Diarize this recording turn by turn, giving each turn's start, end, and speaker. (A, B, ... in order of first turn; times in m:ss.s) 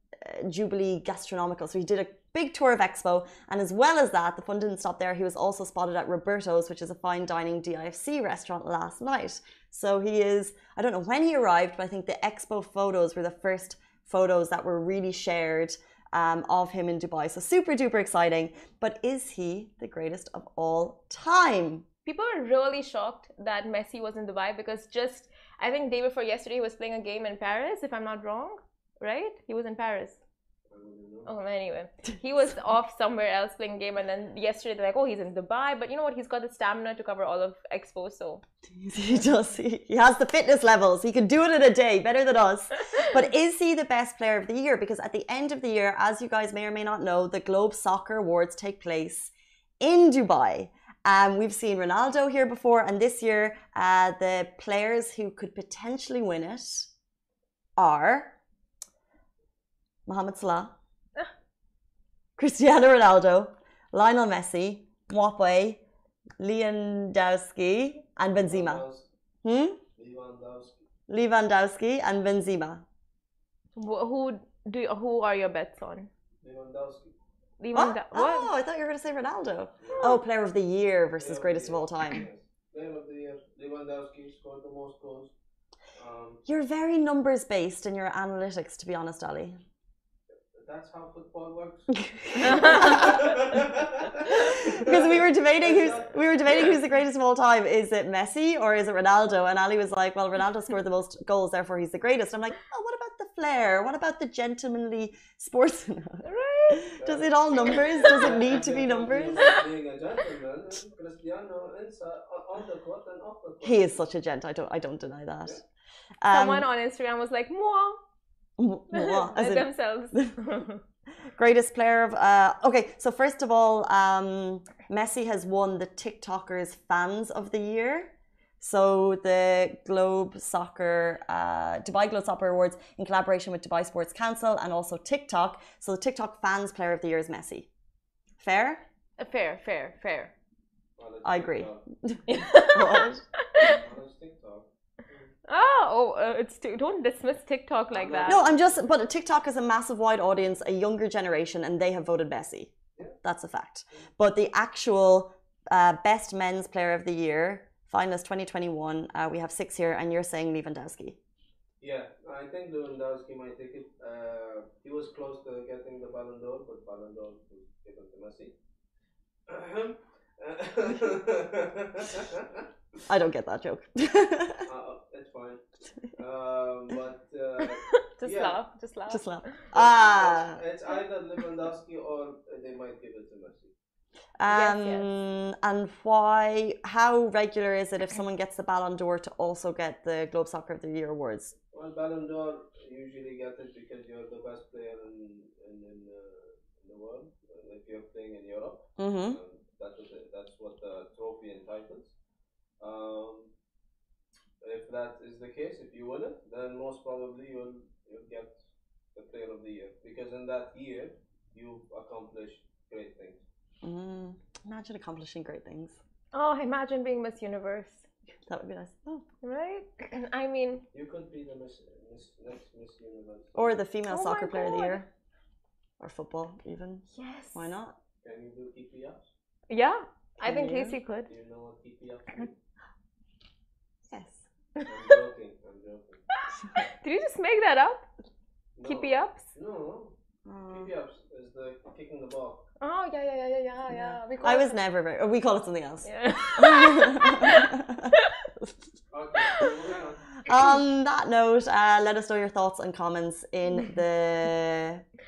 0:00.2-0:21.8 A
0:22.0-0:30.2 B
0:30.7-0:31.3 C
0:31.2-0:38.4 B
0:38.7-0:56.9 A
0:57.8-0:58.4 A
1:00.0-1:00.7 A
1:02.4-1:05.8 A
1:06.4-1:08.8 A
1:08.4-1:09.1 C
1:09.4-1:09.8 A
1:10.0-1:10.8 C
1:11.1-1:12.8 A
1:13.8-1:16.1 B
1:16.4-1:17.2 C
1:17.6-1:18.5 B
1:17.7-1:22.2 A
1:19.8-1:20.2 C
1:21.2-1:25.3 C
1:25.9-1:26.4 C
1:26.4-1:29.6 A
1:30.5-1:36.8 C
1:32.0-1:33.3 A
1:34.2-1:49.6 A
1:46.2-1:46.9 B
1:47.0-1:54.0 C
1:53.6-1:55.6 A
1:56.2-1:56.7 A
1:56.3-1:58.0 B
1:58.6-2:00.3 A
1:58.9-2:00.8 B
2:01.3-2:17.7 A
2:18.4-2:18.8 A
2:19.2-2:20.3 B
2:21.0-2:21.8 C
2:21.2-2:23.2 A
2:22.3-2:23.8 B
2:23.6-2:25.3 C
2:25.5-2:28.4 B
2:27.9-2:28.8 C
2:28.2-2:41.2 A
2:41.8-2:48.5 C
2:49.5-2:52.7 C
2:53.1-2:54.6 A
2:54.6-2:55.6 C
2:56.1-2:58.6 C
2:57.6-2:59.7 B
2:59.1-3:00.6 A
2:59.7-3:03.7 C
3:04.4-3:11.5 A
3:04.4-3:05.1 B
3:11.7-3:22.1 C
3:19.0-3:19.4 A
3:22.8-3:23.5 C
3:24.6-3:28.6 C
3:29.1-3:33.4 C
3:33.8-3:36.0 A
3:36.3-3:38.1 B
3:38.5-3:39.3 A
3:39.4-3:40.8 B
3:40.9-3:43.8 C
3:43.5-3:45.1 A
3:44.1-3:45.0 B
3:46.0-3:48.0 A
3:47.1-3:47.7 B
3:48.2-3:49.3 C
3:49.7-3:51.3 B
3:50.4-3:51.0 A
3:51.2-3:52.6 C
3:54.0-3:54.5 A
3:54.8-3:56.2 C
3:56.4-3:58.1 B
3:58.7-4:00.1 C
3:58.8-3:59.5 B
4:00.4-4:00.9 A
4:00.7-4:02.7 C
4:02.8-4:04.7 B
4:03.9-4:08.1 A
4:06.0-4:08.3 B
4:09.1-4:10.4 C
4:10.4-4:15.0 A